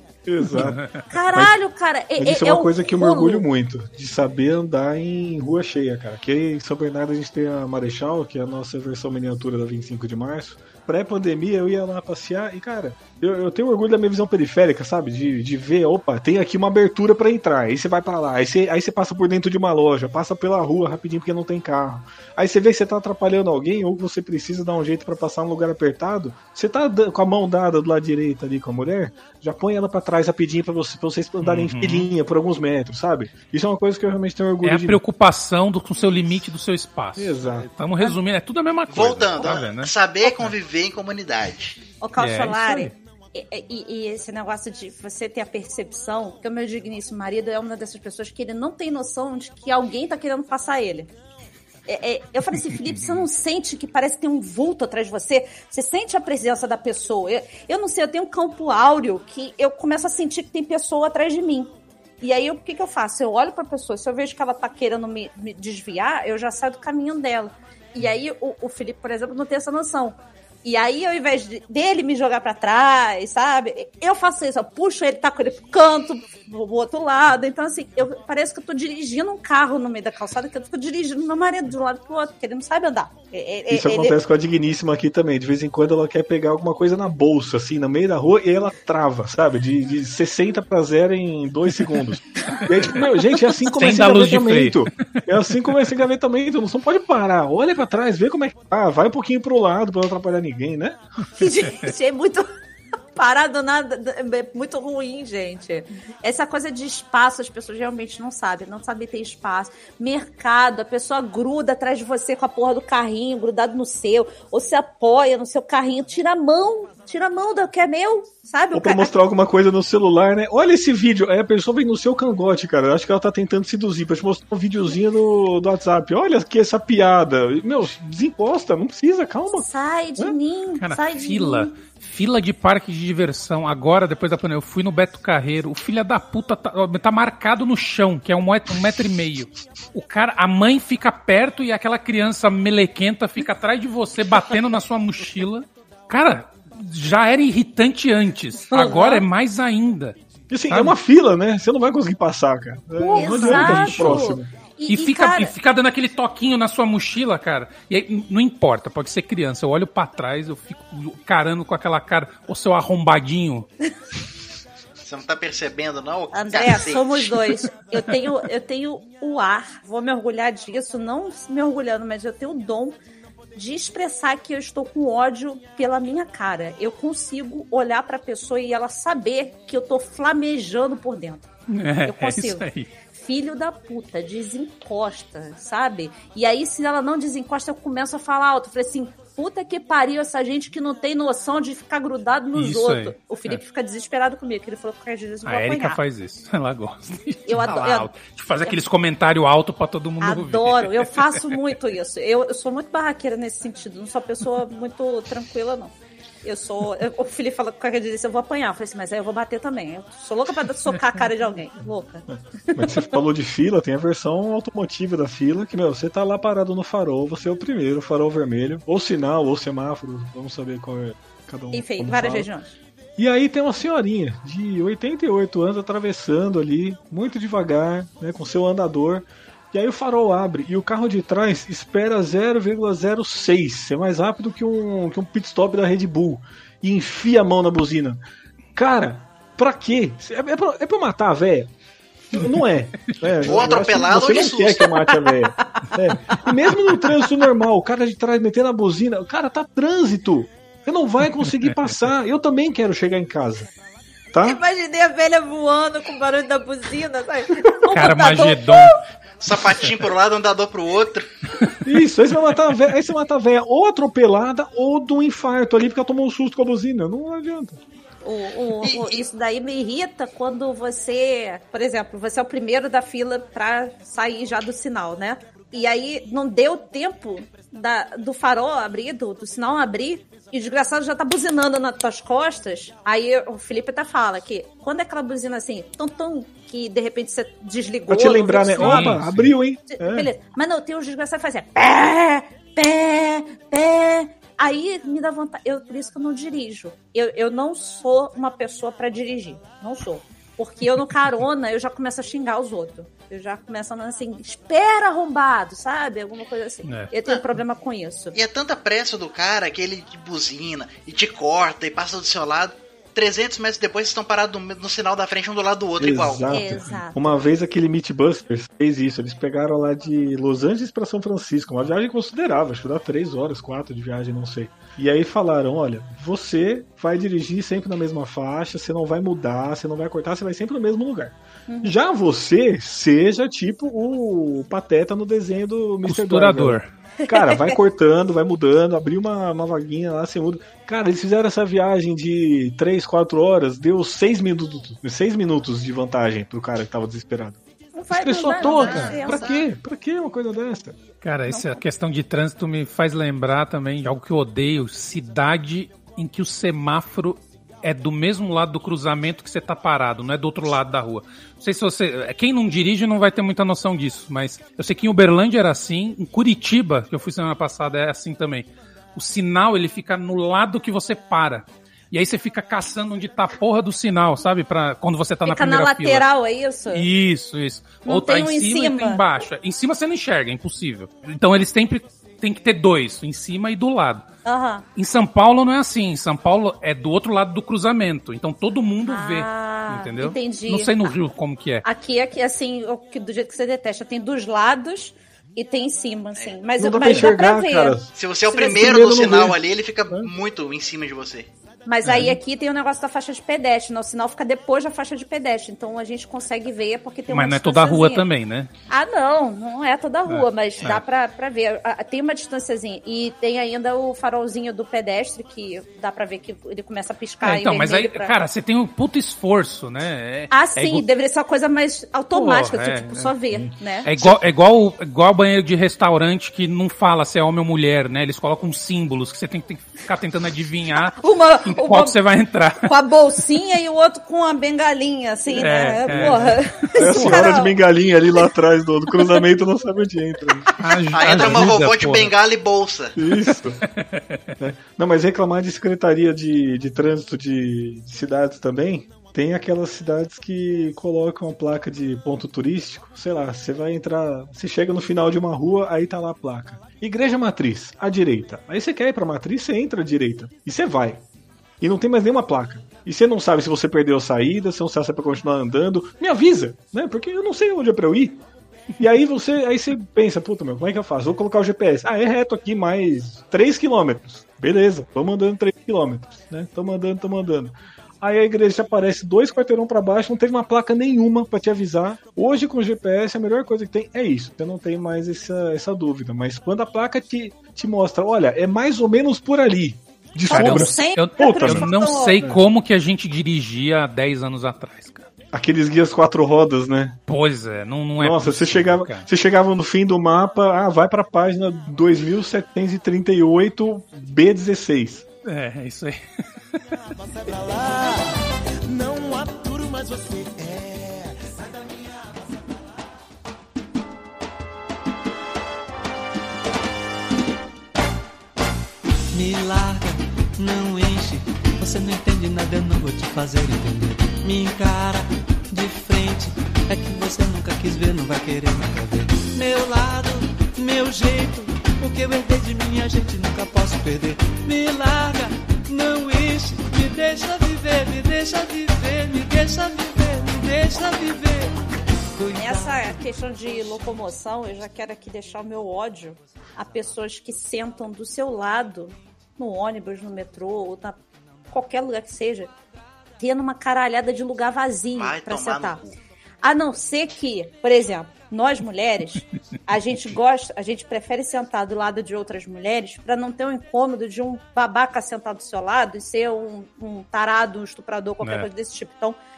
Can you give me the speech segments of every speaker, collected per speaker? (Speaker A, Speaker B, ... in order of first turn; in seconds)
Speaker A: 0.2-0.8, 2.2-35.0, 37.2-37.7, 83.7-101.0, 118.7-129.7, 150.5-154.5, 212.3-222.5, 223.2-238.2, 238.7-241.7, 242.3-253.7, 254.3-254.6, 261.8-267.8, 288.1-290.3, 316.0-347.6, 348.1-351.0, 396.8-399.6, 436.1-440.7, 441.3-441.7, 443.1-443.8, 444.6-461.2, 461.8-468.4, 469.0-492.6, 495.5-497.2, 498.2-505.2
Speaker B: 0.6-1.0, 31.4-32.1, 34.6-40.5, 42.2-42.9, 93.6-95.0, 130.8-150.2, 150.7-151.0, 153.3-154.2, 154.9-163.7, 181.7-182.9, 192.6-193.6, 195.4-201.5, 257.9-258.9, 288.8-289.5, 306.8-307.1, 336.0-336.9, 348.9-349.1, 351.2-376.2, 376.9-384.2, 384.9-391.8, 402.0-402.4, 407.3-408.7, 410.3-411.0, 417.4-421.1, 422.3-423.3, 424.0-431.1, 431.7-432.9, 435.5-437.5, 440.8-442.3, 443.9-444.4, 490.5-495.2, 497.3-499.3, 505.4-506.2, 568.4-568.7
Speaker C: 1.1-3.4, 42.0-51.1, 51.9-61.7, 62.2-84.2, 101.4-102.5, 103.2-119.1, 129.5-131.8, 148.7-149.2, 153.0-155.5, 166.3-172.9, 173.6-181.5, 182.0-196.0, 197.4-198.1, 200.2-213.1, 221.7-222.7, 245.1-246.4, 254.4-258.9, 268.2-289.2, 289.9-308.4, 316.5-317.1, 331.7-331.9, 337.2-337.8, 347.9-349.5, 351.5-351.8, 375.4-377.1, 378.0-379.2, 384.4-384.8, 389.1-391.1, 391.8-398.0, 398.5-398.8, 401.9-408.2, 408.9-418.3, 420.5-424.1, 431.1-432.2, 432.8-437.8, 490.5-492.4, 542.5-551.2, 551.7-552.7, 553.4-556.0, 556.6-569.4
Speaker D: 38.9-41.8, 165.0-167.4, 243.4-244.8, 259.4-261.3, 268.8-269.2, 308.3-316.7, 348.7-349.6, 398.1-401.5, 441.1-443.1, 555.1-556.1
Speaker E: 507.1-512.6
Speaker F: 519.3-544.0